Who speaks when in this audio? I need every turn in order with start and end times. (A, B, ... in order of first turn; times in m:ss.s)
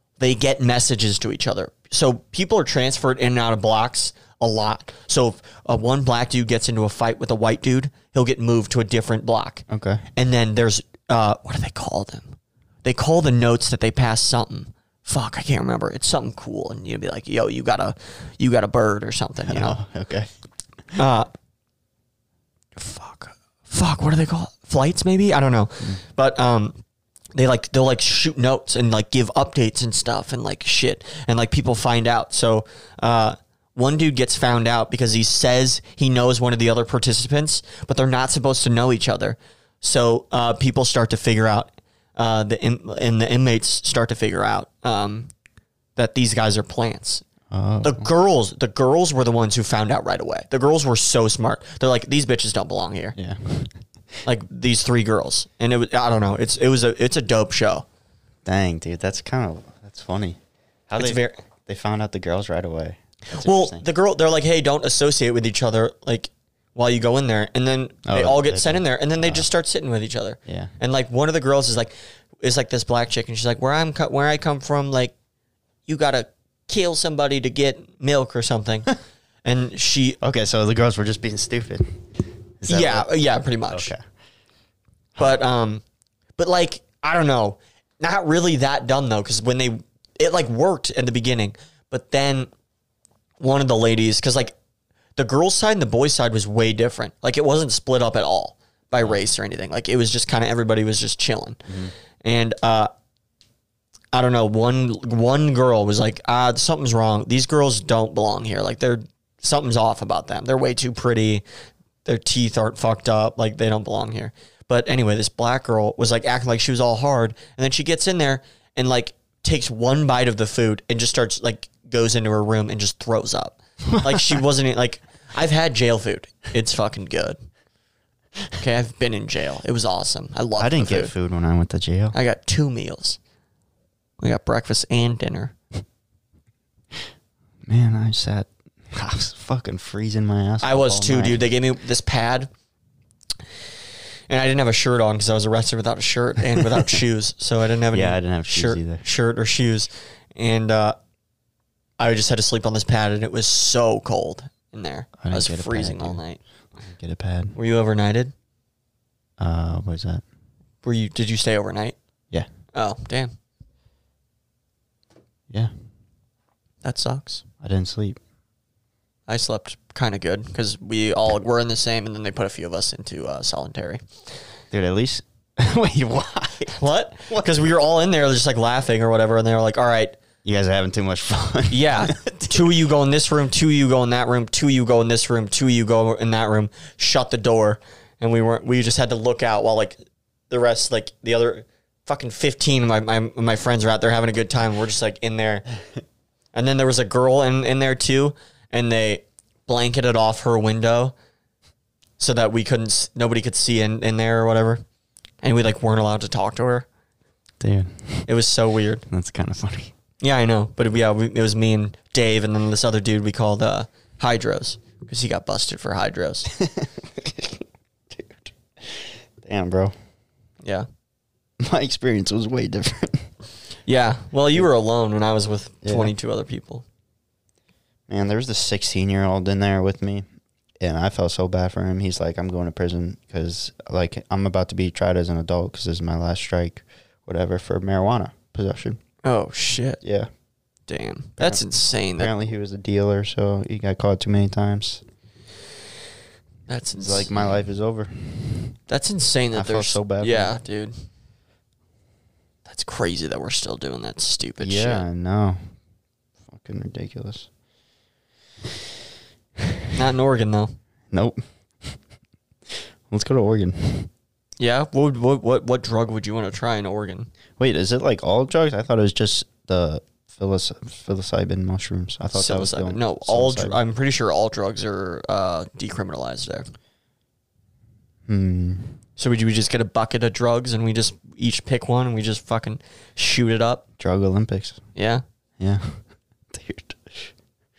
0:00.2-0:09.6 A
0:09.7-0:10.0 B
0:10.2-0:19.8 A
0:19.4-0:20.3 B
0:20.9-0:21.3 A
0:22.8-0:26.8 A
0:27.3-0:45.3 A
0:46.0-0:47.2 A
0:47.5-0:48.1 B
0:47.8-0:53.2 A
0:53.2-0:53.8 B
0:54.2-0:57.8 A
0:58.4-1:03.8 B
1:01.0-1:01.4 A
1:03.3-1:15.1 A
1:08.0-1:09.5 B
1:10.4-1:10.7 B
1:15.9-1:20.2 A
1:20.2-1:22.1 B
1:22.6-1:23.1 B
1:22.7-1:23.9 A
1:23.7-1:24.0 B
1:25.2-1:25.8 A
1:26.4-1:32.5 A
1:33.4-1:34.5 A
1:35.2-1:42.9 A
1:41.7-1:41.9 B
1:44.1-1:51.4 A
1:52.0-2:07.4 A
2:03.9-2:04.4 B
2:08.5-2:11.1 A
2:10.6-2:12.2 B
2:12.1-2:13.2 A
2:14.2-2:15.5 A
2:17.6-2:21.4 B
2:20.6-2:22.5 A
2:24.3-2:31.0 A
2:26.6-2:26.8 B
2:27.9-2:29.0 B
2:32.0-2:36.4 A
2:35.2-2:36.2 B
2:36.8-2:37.5 B
2:37.5-2:38.3 A
2:39.4-2:40.2 B
2:40.8-2:41.9 A
2:42.7-2:43.3 A
2:46.8-2:47.4 A
2:47.6-2:48.2 B
2:49.3-2:54.0 A
2:54.7-2:57.5 B
2:56.7-3:00.2 A
3:00.4-3:02.7 B
3:01.7-3:10.0 A
3:10.5-3:15.6 A
3:16.5-3:21.1 A
3:22.2-3:24.8 A
3:25.4-3:26.9 A
3:27.6-3:28.3 B
3:28.3-3:29.0 A
3:29.1-3:29.9 B
3:30.2-3:36.5 A
3:36.5-3:39.9 B
3:41.6-3:43.3 B
3:43.8-3:46.8 A
3:45.8-3:46.1 B
3:48.1-3:50.2 B
3:50.8-3:59.0 B
3:59.2-4:00.0 A
4:00.0-4:00.3 B
4:00.9-4:02.3 A
4:01.4-4:01.6 B
4:02.2-4:05.0 B
4:06.7-4:07.5 A
4:07.0-4:08.7 B
4:08.9-4:11.0 A
4:09.5-4:10.6 B
4:12.6-4:15.0 A
4:14.6-4:15.6 B
4:16.5-4:17.5 B
4:19.6-4:19.9 B
4:19.9-4:20.8 A
4:21.1-4:22.0 B
4:22.7-4:24.1 B
4:24.6-4:27.3 A
4:27.6-4:33.8 B
4:32.3-4:36.6 A
4:38.3-4:39.0 B
4:39.2-4:43.8 A
4:44.0-4:44.8 B
4:44.9-4:45.2 A
4:45.6-4:47.3 B